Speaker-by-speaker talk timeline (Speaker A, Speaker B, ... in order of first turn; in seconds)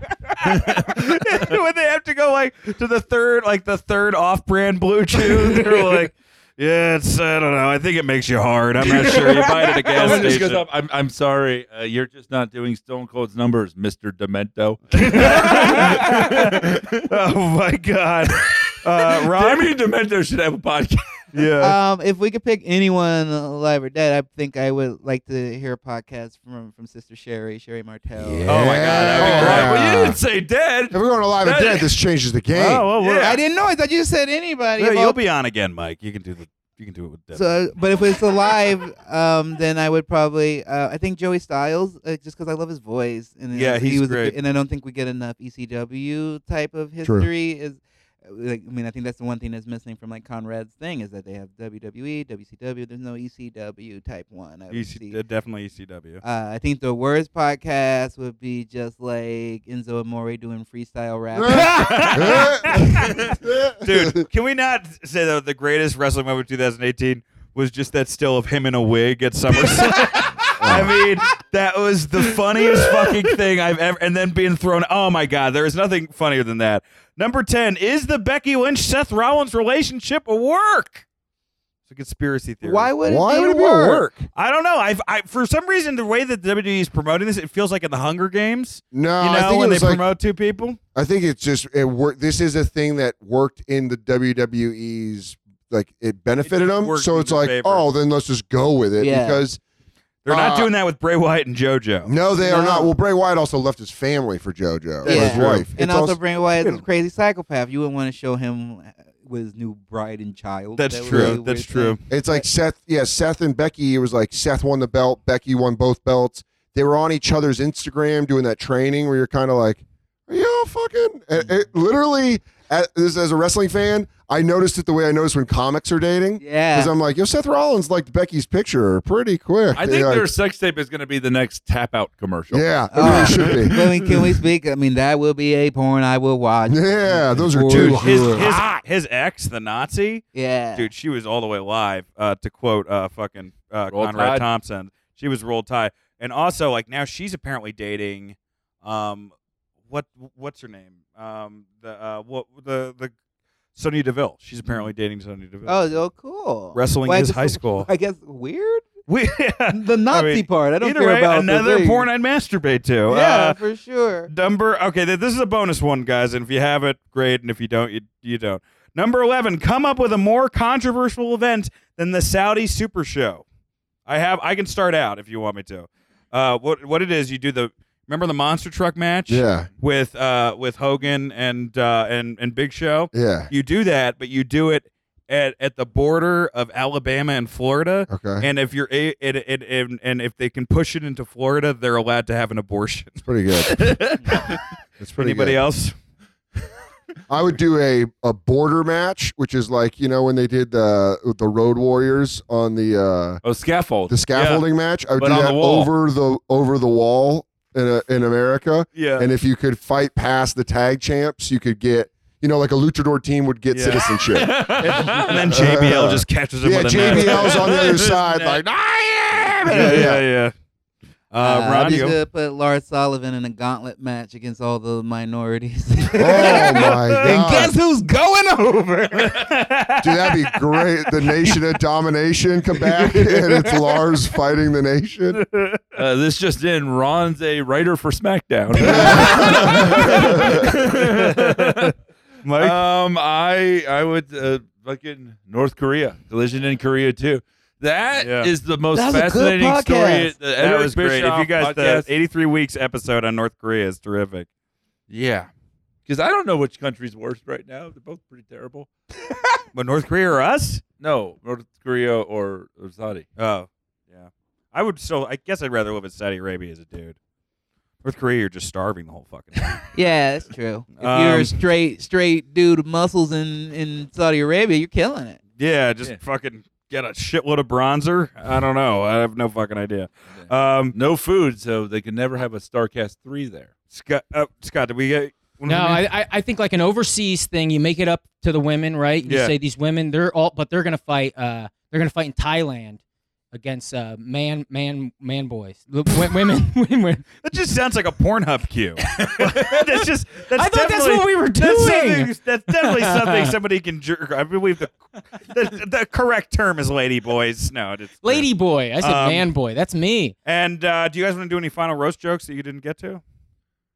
Speaker A: 0.4-10.6, 14.9-19.7, 21.3-21.8, 28.5-29.7, 32.5-33.4, 34.8-37.5, 43.5-44.3, 54.7-56.2, 61.5-81.0, 81.9-82.9, 84.3-90.8, 96.5-97.8, 100.2-102.1, 105.0-105.8, 106.6-106.8, 110.8-112.0, 133.0-133.7, 137.7-149.3, 149.9-153.1, 153.8-155.9, 156.7-157.9, 159.1-163.6, 164.3-173.4, 174.1-193.2, 193.8-194.6, 195.2-195.9, 208.9-209.3, 213.7-218.6, 219.7-220.5, 221.3-222.2, 226.2-227.4, 229.2-230.7, 235.3-235.8, 239.8-242.8, 248.2-248.5, 250.6-254.5, 259.7-260.8, 263.4-267.2, 268.0-269.8, 271.0-271.6, 275.6-280.9, 283.9-286.0, 289.2-289.5, 297.4-308.5, 309.0-309.5, 310.4-313.2
Speaker B: 0.4-0.9, 8.8-17.1, 19.0-21.2, 29.0-31.9, 33.0-33.4, 69.6-70.7, 72.6-73.2, 129.7-133.2, 143.9-144.4, 193.7-194.6, 203.4-205.9, 214.3-215.5, 235.9-241.9, 242.6-252.1, 255.1-255.5, 256.1-258.9, 261.0-263.3, 280.9-283.7
Speaker C: 21.6-29.0, 33.0-35.1, 37.3-55.1, 56.2-63.0, 82.6-84.1, 99.0-99.4, 102.4-102.9, 105.0-112.5, 126.4-126.9, 132.9-138.6, 140.3-140.9, 155.7-158.9, 159.7-162.1, 163.1-164.3, 219.6-220.1, 221.4-229.5, 233.0-233.8, 238.8-239.3, 248.9-250.3, 269.9-275.4
Speaker D: 28.1-30.2, 30.9-32.9, 47.0-47.3, 61.3-64.2, 70.6-70.9, 83.0-84.2, 88.9-90.0, 90.9-99.6, 100.3-100.7, 102.0-106.2, 111.1-111.4, 112.1-130.3, 132.5-134.1, 136.7-138.8, 179.3-179.7, 183.1-183.5, 188.1-188.5, 193.2-194.4, 195.0-195.6, 197.3-203.4, 204.1-220.2, 226.2-227.7, 230.0-235.4, 238.8-240.6
Speaker E: 285.7-293.0, 293.5-297.2, 299.1-299.8, 300.5-303.5, 308.2-310.3